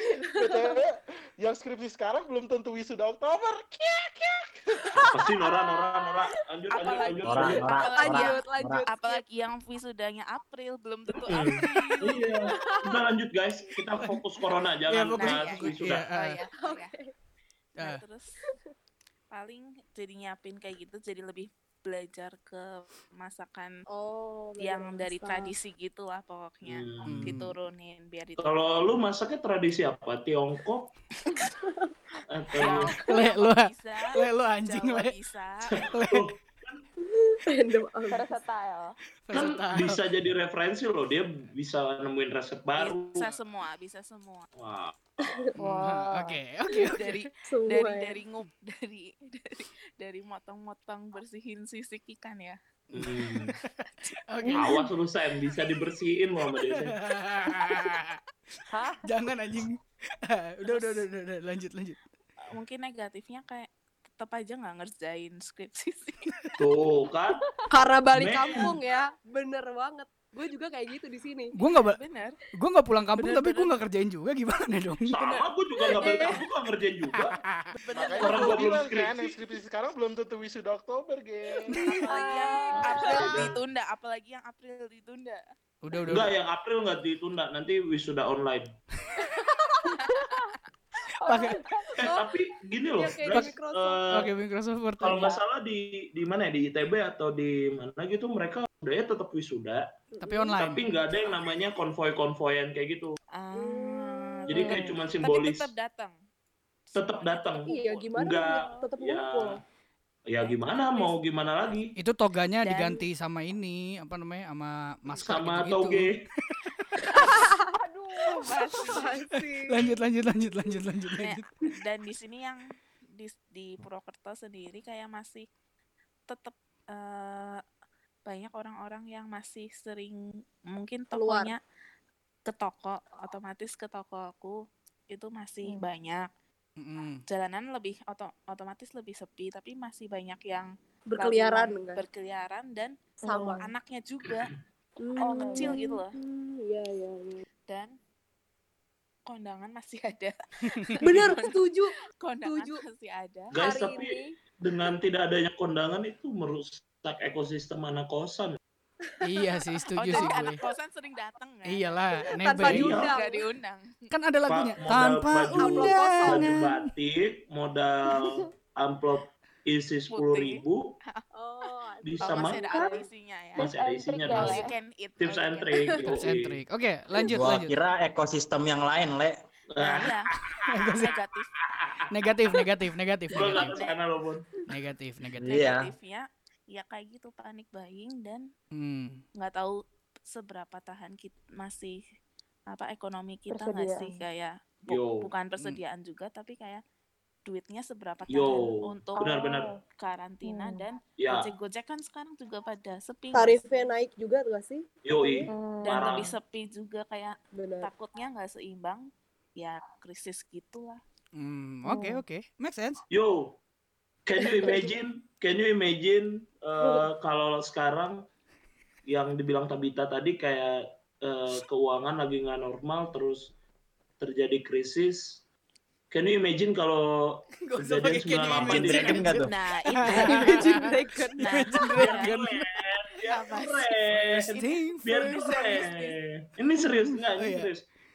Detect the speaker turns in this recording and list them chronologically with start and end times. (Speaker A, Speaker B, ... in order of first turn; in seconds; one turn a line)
Speaker A: 0.2-0.8
Speaker B: 0.3-5.0
Speaker C: 5.0-7.7
Speaker A: 5.0-6.0
Speaker D: 6.7-12.4
Speaker A: 6.9-9.2
Speaker E: 7.2-8.8
Speaker C: 11.2-16.1
Speaker A: 12.5-13.0
Speaker F: 14.9-16.4
Speaker D: 15.2-16.9
Speaker A: 16.6-17.1
Speaker D: 17.8-18.3
Speaker D: 19.3-23.7
Speaker A: 23.9-25.5
Speaker D: 24.6-28.7
Speaker C: 26.6-27.4
Speaker F: 27.1-27.5
Speaker C: 28.4-30.9
Speaker A: 31.4-31.7
Speaker C: 32.3-33.0
Speaker D: 32.6-35.8
Speaker F: 33.1-35.1
Speaker C: 35.7-36.8
Speaker F: 35.9-36.3
Speaker A: 37.0-38.3
Speaker G: 38.1-38.9
Speaker F: 39.3-40.0
Speaker C: 39.3-43.3
Speaker D: 42.8-44.5
Speaker C: 44.6-45.3
Speaker A: 45.2-45.5
Speaker G: 45.6-46.4
Speaker F: 45.6-47.2
Speaker D: 46.8-52.6
Speaker A: 47.5-48.2
Speaker F: 52.9-54.8
Speaker C: 52.9-53.5
Speaker G: 54.4-54.8
Speaker C: 54.5-57.0
Speaker F: 56.8-58.2
Speaker G: 58.7-59.0
Speaker F: 59.0-62.0
Speaker D: 60.6-61.0
Speaker D: 62.5-66.2
Speaker C: 66.6-67.4
Speaker A: 67.7-71.5
Speaker C: 68.1-68.8
Speaker F: 71.5-72.0
Speaker D: 71.8-72.4
Speaker F: 72.5-75.1
Speaker D: 73.2-73.8
Speaker C: 75.1-77.4
Speaker A: 75.2-76.4
Speaker F: 77.2-77.7
Speaker D: 77.7-78.9
Speaker B: 77.9-81.9
Speaker C: 78.2-79.3
Speaker D: 81.8-85.4
Speaker A: 82.0-83.3
Speaker C: 82.8-83.6
Speaker F: 85.8-86.3
Speaker C: 86.1-88.7
Speaker G: 91.2-91.9
Speaker F: 91.2-91.6
Speaker C: 92.0-94.3
Speaker A: 92.9-94.0
Speaker F: 94.1-95.3
Speaker C: 95.0-99.9
Speaker A: 100.1-100.5
Speaker F: 100.2-100.8
Speaker C: 100.6-103.2
Speaker D: 103.3-106.2
Speaker A: 103.5-104.4
Speaker C: 104.5-105.7
Speaker G: 104.5-105.0
Speaker D: 106.9-108.9
Speaker C: 107.0-109.6
Speaker A: 107.7-109.6
Speaker C: 110.3-111.9
Speaker D: 110.4-111.1
Speaker F: 112.0-116.1
Speaker D: 112.6-113.0
Speaker C: 115.2-116.2
Speaker A: 117.2-117.6
Speaker G: 117.8-118.3
Speaker D: 118.3-119.9
Speaker A: 118.8-119.8
Speaker F: 119.7-121.4
Speaker D: 121.2-122.6
Speaker D: 123.2-125.5
Speaker D: 126.3-127.6
Speaker D: 128.2-131.6
Speaker A: 131.1-131.5
Speaker D: 132.5-134.5
Speaker D: 135.1-136.3
Speaker F: 136.8-137.2
Speaker D: 137.3-144.5
Speaker A: 141.1-142.0
Speaker A: 143.2-143.6
Speaker A: 145.0-147.4
Speaker D: 145.2-146.2
Speaker G: 145.2-145.8
Speaker D: 147.7-147.9
Speaker D: 149.2-153.6
Speaker F: 150.7-151.0
Speaker A: 151.0-152.8
Speaker C: 153.5-158.6
Speaker A: 153.6-154.3
Speaker F: 159.2-160.6
Speaker D: 160.0-163.9
Speaker F: 161.6-163.1
Speaker A: 162.4-163.4
Speaker C: 162.7-163.2
Speaker F: 164.1-166.9
Speaker C: 164.5-170.9
Speaker A: 165.5-166.6
Speaker D: 170.1-171.2
Speaker A: 171.3-172.9
Speaker C: 172.0-172.6
Speaker D: 172.2-173.7
Speaker G: 172.7-173.0
Speaker G: 173.6-174.8
Speaker C: 173.6-174.7
Speaker D: 174.3-175.9
Speaker C: 175.2-176.6
Speaker F: 176.1-177.7
Speaker E: 177.3-179.4
Speaker C: 179.7-180.2
Speaker D: 179.8-180.3
Speaker F: 180.7-181.1
Speaker D: 180.9-181.5
Speaker C: 181.7-182.0
Speaker F: 182.1-183.7
Speaker D: 183.3-184.0
Speaker C: 183.3-184.4
Speaker F: 184.7-185.6
Speaker E: 185.4-185.9
Speaker D: 185.4-188.5
Speaker F: 188.7-189.2
Speaker D: 189.4-192.0
Speaker D: 192.7-196.8
Speaker G: 193.5-194.2
Speaker C: 194.9-195.3
Speaker D: 197.4-199.2
Speaker C: 198.3-199.7
Speaker G: 199.2-199.8
Speaker D: 200.0-203.9
Speaker G: 200.4-200.8
Speaker C: 201.2-201.5
Speaker A: 203.3-205.5
Speaker C: 205.0-206.3
Speaker G: 205.5-206.3
Speaker D: 205.8-211.0
Speaker A: 207.5-207.9
Speaker F: 211.3-213.0
Speaker G: 211.8-212.2
Speaker C: 213.1-213.5
Speaker C: 214.2-218.2
Speaker A: 214.5-214.9
Speaker A: 216.8-217.1
Speaker C: 219.1-223.5
Speaker C: 224.2-225.4
Speaker C: 226.1-229.2
Speaker F: 227.6-232.7
Speaker E: 228.6-229.5
Speaker D: 229.4-232.3
Speaker A: 230.3-231.9
Speaker C: 232.0-237.8
Speaker D: 233.3-236.1
Speaker F: 234.5-235.8
Speaker F: 237.4-237.7